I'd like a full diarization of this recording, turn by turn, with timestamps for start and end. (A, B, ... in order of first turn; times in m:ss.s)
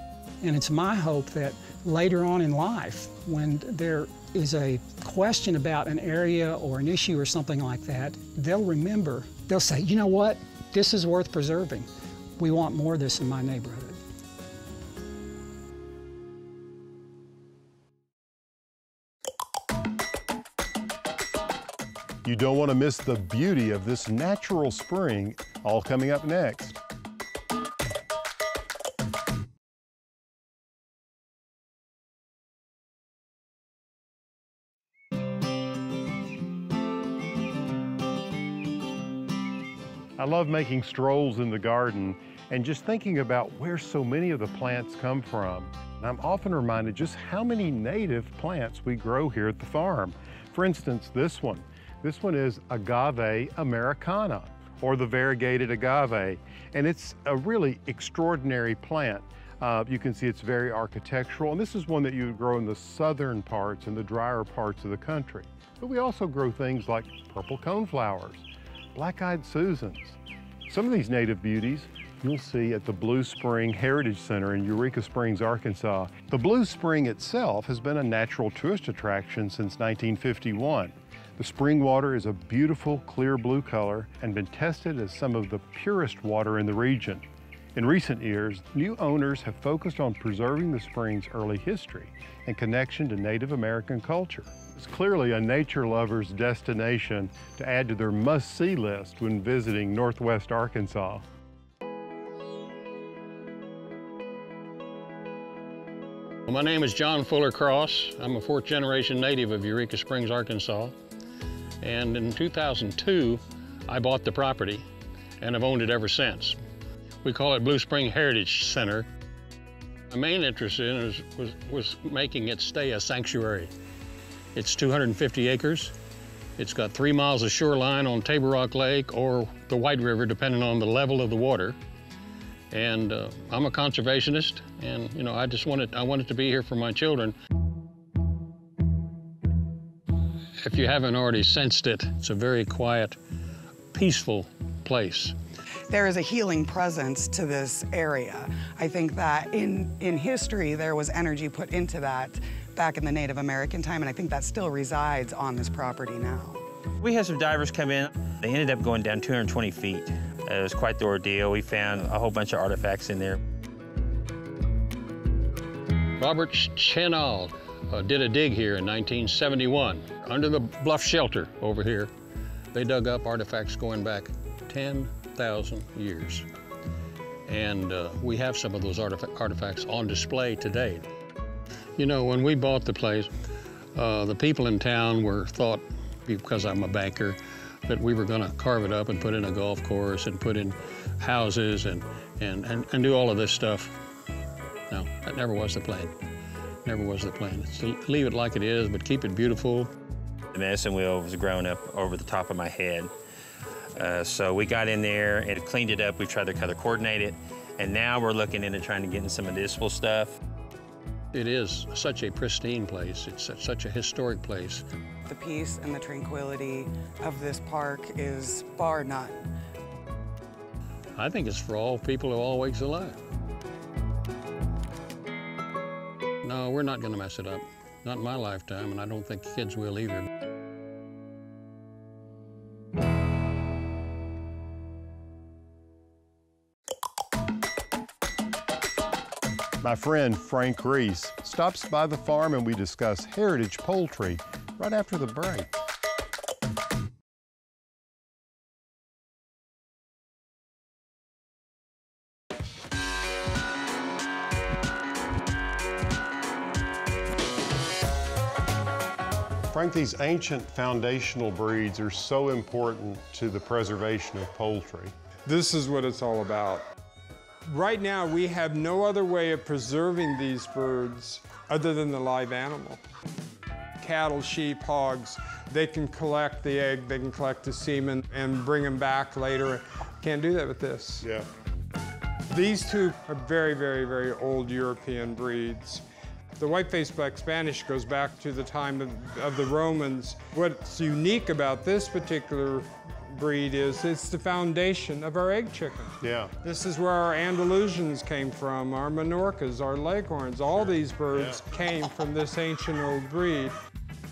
0:00.4-0:14.0 A
0:22.2-0:26.8 B
0:40.2-1:27.2 B
1:27.8-1:41.2 B
1:46.5-1:50.9 C
1:51.8-1:54.8 C
1:55.4-1:56.6 C
1:57.2-1:59.1 C
2:00.1-2:03.7 C
2:04.5-2:05.9 C
2:06.6-2:11.8 C
2:12.7-2:17.3 C
2:20.6-2:23.2 C
2:23.9-2:25.3 C
2:25.9-2:36.6 D
2:37.0-2:43.4 E
2:46.2-2:52.1 C
2:52.7-2:56.4 C
2:57.5-3:01.0 C
3:02.0-3:03.3 C
3:03.9-3:14.0 C
3:14.9-3:16.1 C
3:16.8-3:19.9 C
3:20.5-3:23.1 E
3:24.0-3:30.4 E
3:31.3-3:34.8 C
3:35.3-3:39.3 D
3:41.2-3:43.2 C
3:46.4-3:50.3 C
3:59.8-4:05.7 B
4:19.7-4:25.1 B
4:25.5-4:26.8 F
4:27.7-4:33.0 F
4:34.0-4:41.3 F
4:42.5-4:46.0 F
4:46.6-5:03.7 F
4:56.2-4:56.5 B
5:00.8-5:01.6 B